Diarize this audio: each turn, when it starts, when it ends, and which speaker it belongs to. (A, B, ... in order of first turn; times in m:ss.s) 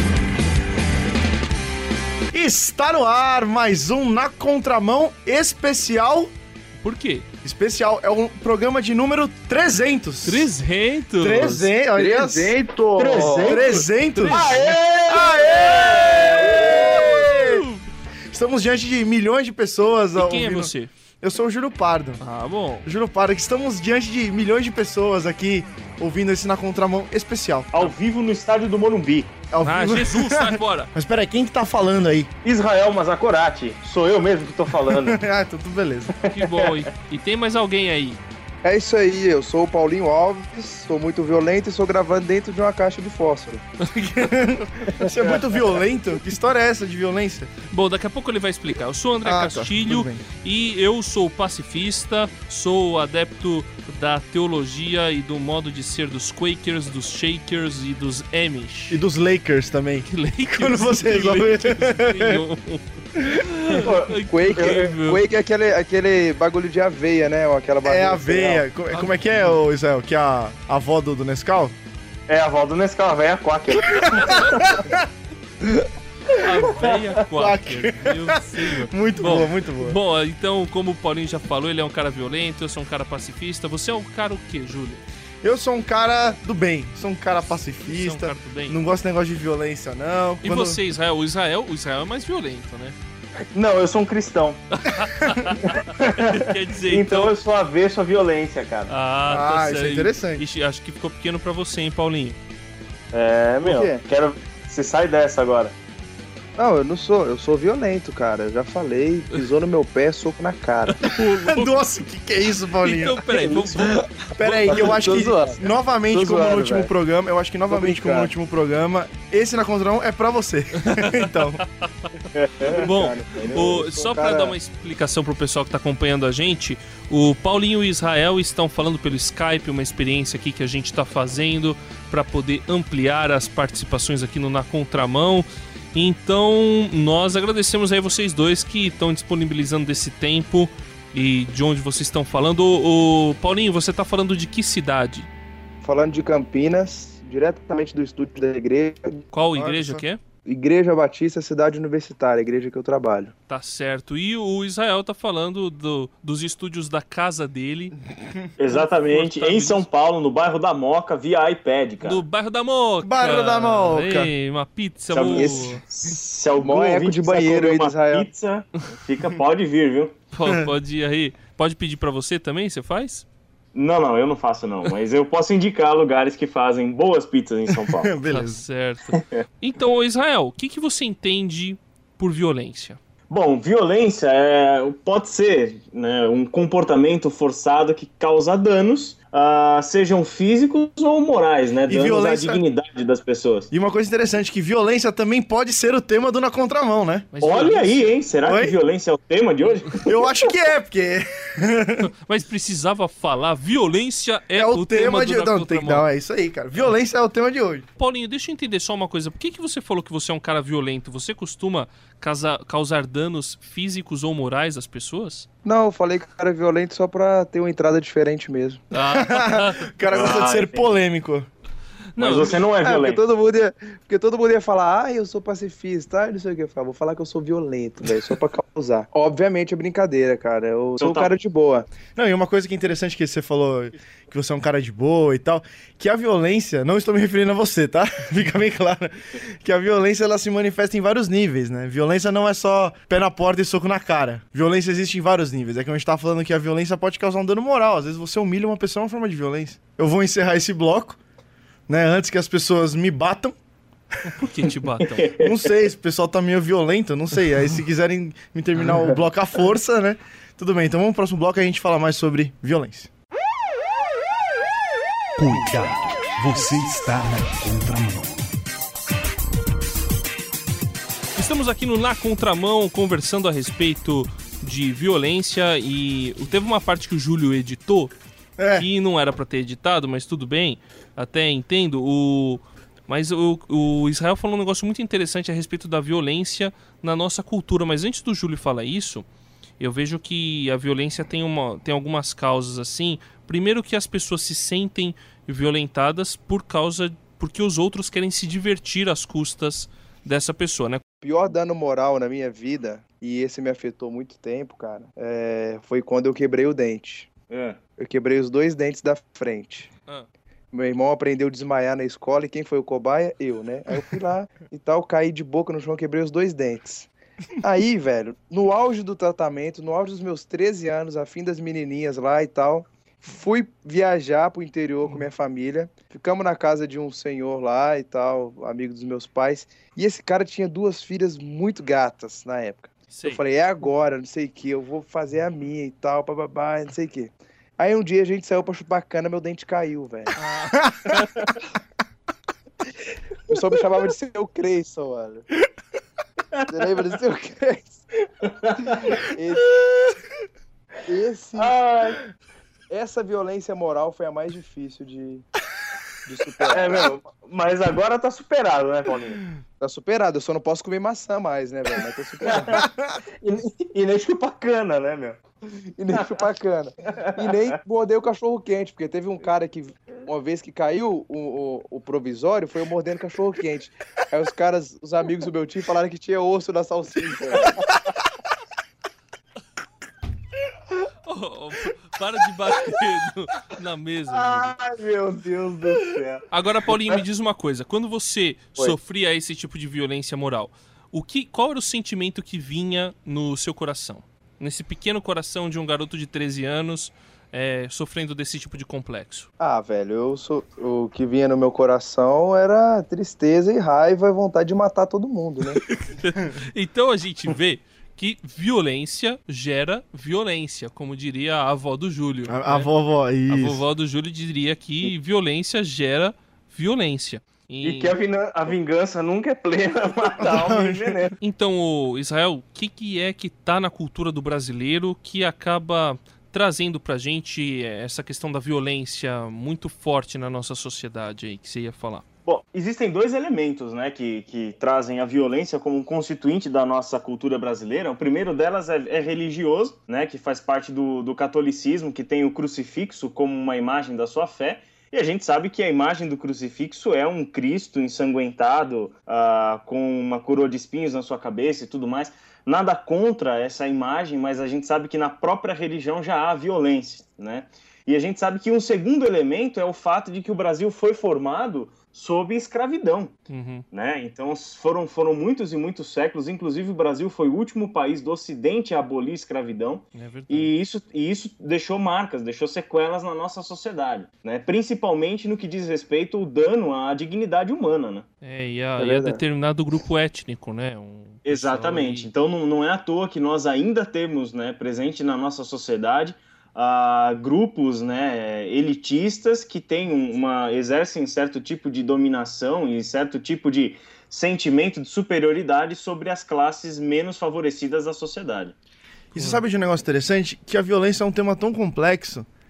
0:02.3-0:06.3 A
0:06.8-0:07.2 B
0:07.4-0:10.5 A
0:10.2-0:11.7 B
0:11.2-0:12.6 A
0:12.0-0:13.6 C
0:13.0-0:17.0 D
0:13.4-0:14.5 A
0:14.1-0:17.8 B
0:15.1-0:17.7 A
0:18.3-0:22.2 A
0:20.2-0:20.9 B
0:22.2-0:22.8 B
0:22.8-0:27.9 A
0:27.7-0:29.3 D
0:29.5-0:32.3 A
0:29.6-0:30.9 B
0:32.4-0:35.2 D
0:35.0-0:36.1 A
0:36.2-0:36.8 D
0:36.3-0:38.2 B
0:38.6-0:43.6 C
0:44.1-0:47.5 A
0:45.0-0:45.4 D
0:47.7-0:59.0 B
0:49.2-0:50.2 A
0:58.9-1:02.4 A
1:00.1-1:05.2 B
1:03.1-1:03.5 A
1:03.7-1:04.8 D
1:04.2-1:08.6 C
1:07.8-1:11.7 A
1:08.9-1:09.6 B
1:12.3-1:14.8 D
1:13.8-1:15.0 A
1:15.6-1:20.0 A
1:16.4-1:25.0 B
1:25.4-1:30.8 A
1:27.8-1:28.8 B
1:30.4-1:33.0 B
1:33.5-1:34.6 D
1:34.8-1:37.3 B
1:35.6-1:38.9 D
1:38.9-1:42.4 B
1:39.3-1:40.4 A
1:43.1-1:45.7 D
1:43.6-1:44.0 C
1:46.6-1:51.0 C
1:51.0-1:51.8 B
1:51.4-1:53.3 A
1:52.8-1:55.2 B
1:54.3-2:01.6 A
1:54.7-1:56.9 C
1:57.7-1:58.3 C
2:00.8-2:01.9 B
2:02.3-2:02.8 D
2:02.6-2:04.6 C
2:02.6-2:25.3 B
2:25.8-2:29.2 C
2:29.3-2:30.2 B
2:29.5-2:30.0 A
2:30.4-2:33.3 C
2:33.5-2:37.9 B
2:38.6-2:42.2 D
2:38.7-2:39.8 B
2:42.0-2:45.8 B
2:43.0-2:44.3 A
2:45.1-2:50.2 D
2:45.2-2:45.8 C
2:46.6-2:48.3 C
2:50.3-2:53.2 B
2:50.4-2:50.7 A
2:53.7-2:58.1 D
2:57.8-2:58.6 A
2:58.3-3:03.0 B
2:59.1-2:59.4 D
3:03.3-3:13.7 D
3:11.9-3:12.6 A
3:13.7-3:17.3 A
3:17.3-3:18.2 B
3:17.4-3:20.3 D
3:18.4-3:18.8 A
3:20.0-3:22.1 A
3:22.0-3:26.0 B
3:24.5-3:27.8 A
3:28.0-3:35.5 B
3:35.6-3:38.8 C
3:38.9-3:39.9 B
3:39.1-3:41.5 A
3:40.1-3:41.0 D
3:42.1-3:42.6 B
3:42.2-3:42.5 A
3:42.2-3:43.2 D
3:42.8-3:51.9 C
3:51.0-3:51.3 D
3:52.2-4:11.2 A
4:11.9-4:13.5 A
4:14.3-4:15.3 B
4:15.0-4:15.6 D
4:15.4-4:23.1 A
4:25.4-4:28.4 E
4:31.4-4:38.1 B
4:38.6-4:38.9 A
4:38.8-4:49.2 B
4:49.8-5:01.0 B
5:01.2-5:07.3 C
5:07.5-5:07.8 D
5:08.0-5:09.9 C
5:10.7-5:17.1 C
5:17.6-5:40.4 C
5:33.1-5:33.4 B
5:40.4-5:41.5 B
5:40.8-5:41.2 A
5:43.5-5:45.4 C
5:46.7-5:48.0 C
5:48.5-5:49.2 D
5:48.9-5:49.8 C
5:51.0-5:51.8 C
5:51.6-5:52.3 D
5:52.9-5:55.5 C
5:56.2-5:57.1 C
5:56.7-5:59.4 D
5:59.8-6:02.8 C
6:02.5-6:02.8 D
6:02.7-6:03.2 A
6:03.4-6:05.4 D
6:06.0-6:17.8 C
6:07.1-6:07.7 D
6:17.5-6:17.8 D
6:21.2-6:24.7 B
6:24.3-6:26.4 D
6:26.5-6:39.5 B
6:39.6-6:45.8 C
6:46.0-6:52.9 B
6:52.5-6:53.8 A
6:53.5-6:58.2 B
6:57.8-7:01.3 D
7:00.4-7:01.3 A
7:01.4-7:12.2 B
7:12.4-7:43.3 D
7:43.5-7:43.8 B
7:43.9-7:58.2 D
7:50.1-7:50.7 B
7:58.4-8:02.3 B
7:59.0-7:59.4 C
8:01.4-8:18.7 D
8:19.3-8:22.4 A
8:19.4-8:19.6 B